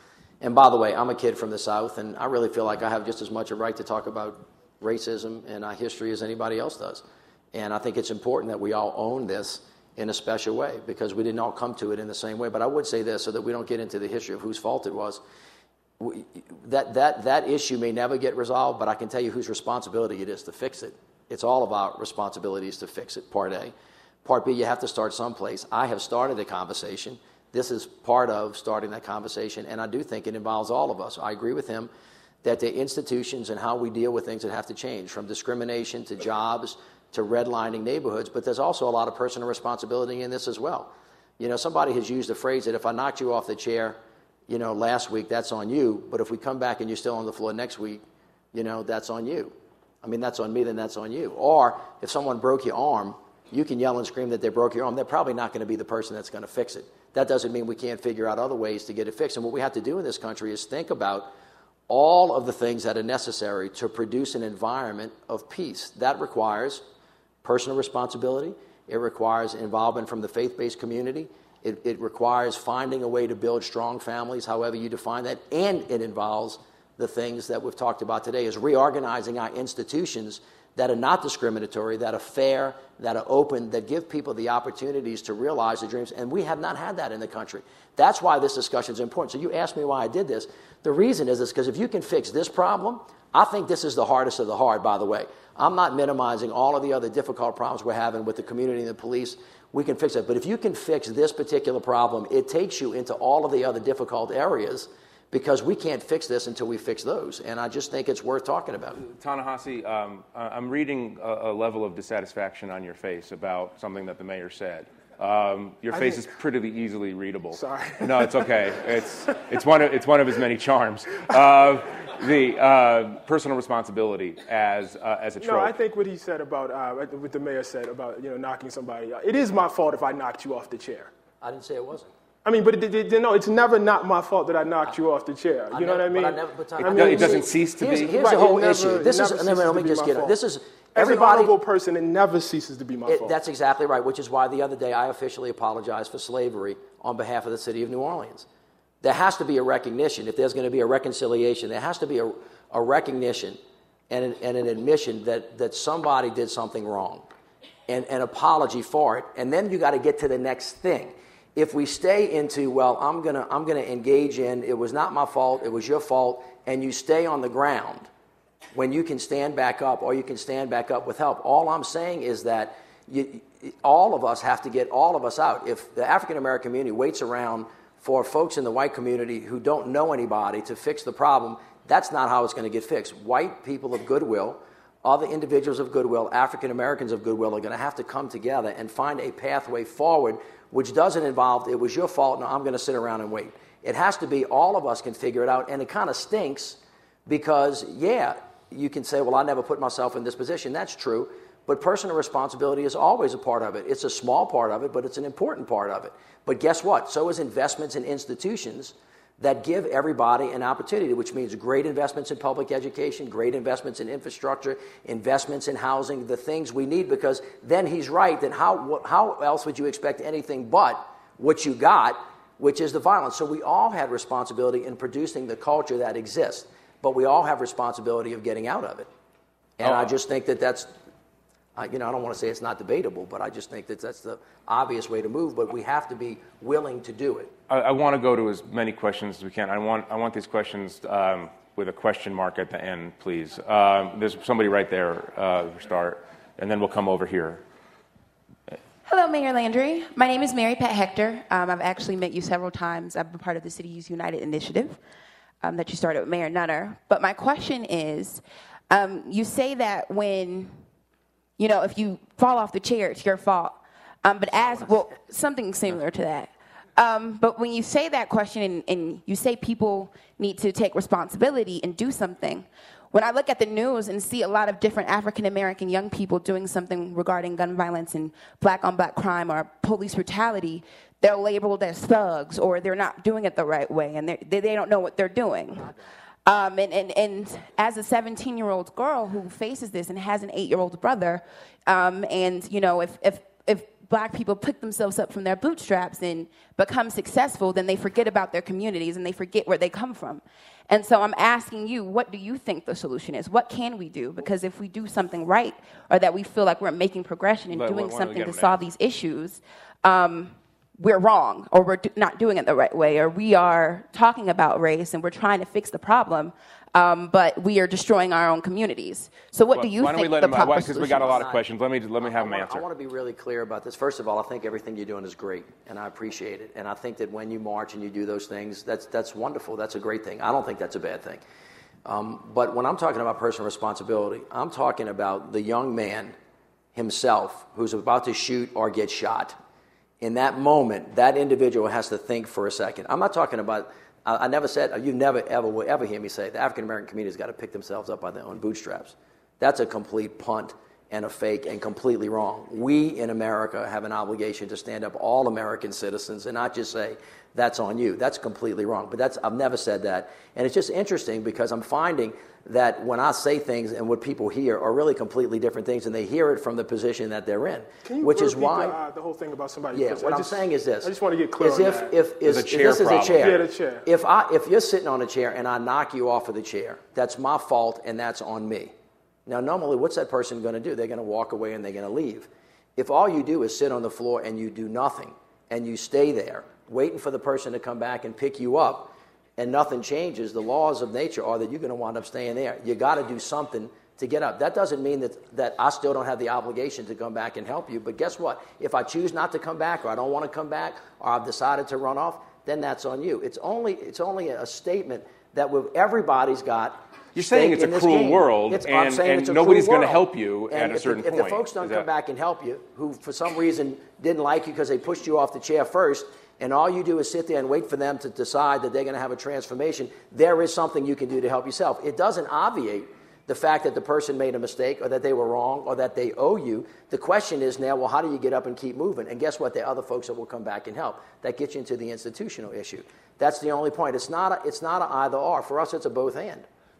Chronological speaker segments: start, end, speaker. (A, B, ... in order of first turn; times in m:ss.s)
0:00.4-0:15.2 A
0:16.0-0:23.7 A
0:24.2-0:31.9 A
0:32.4-0:44.0 A
0:44.5-0:48.0 A
0:48.5-1:01.3 A
1:01.9-1:06.8 A
1:07.4-1:49.0 A
1:49.0-2:05.8 B
1:57.6-1:58.4 C
2:05.4-2:11.1 C
2:11.4-2:12.1 A
2:12.4-2:17.5 C
2:15.7-2:21.5 A
2:16.8-2:18.2 B
2:18.1-2:20.4 C
2:21.0-2:23.3 C
2:23.1-2:28.5 A
2:29.0-2:33.6 A
2:34.1-2:37.2 A
2:37.9-2:48.1 A
2:48.7-3:49.1 A
3:49.8-3:50.9 A
3:49.8-3:50.1 B
3:51.8-3:57.5 A
3:57.7-4:07.6 B
4:09.1-4:15.0 D
4:15.6-4:20.7 D
4:21.6-4:46.0 D
4:46.5-5:21.4 D
5:07.7-5:08.9 B
5:19.7-5:22.9 B
5:21.2-5:21.6 A
5:22.2-5:31.4 A
5:32.1-5:36.4 A
5:37.0-5:39.6 A
5:40.2-6:09.0 A
6:08.0-6:12.1 C
6:09.9-6:18.9 A
6:12.5-6:13.6 B
6:13.4-6:14.0 C
6:19.5-7:16.7 A
6:47.4-6:52.1 B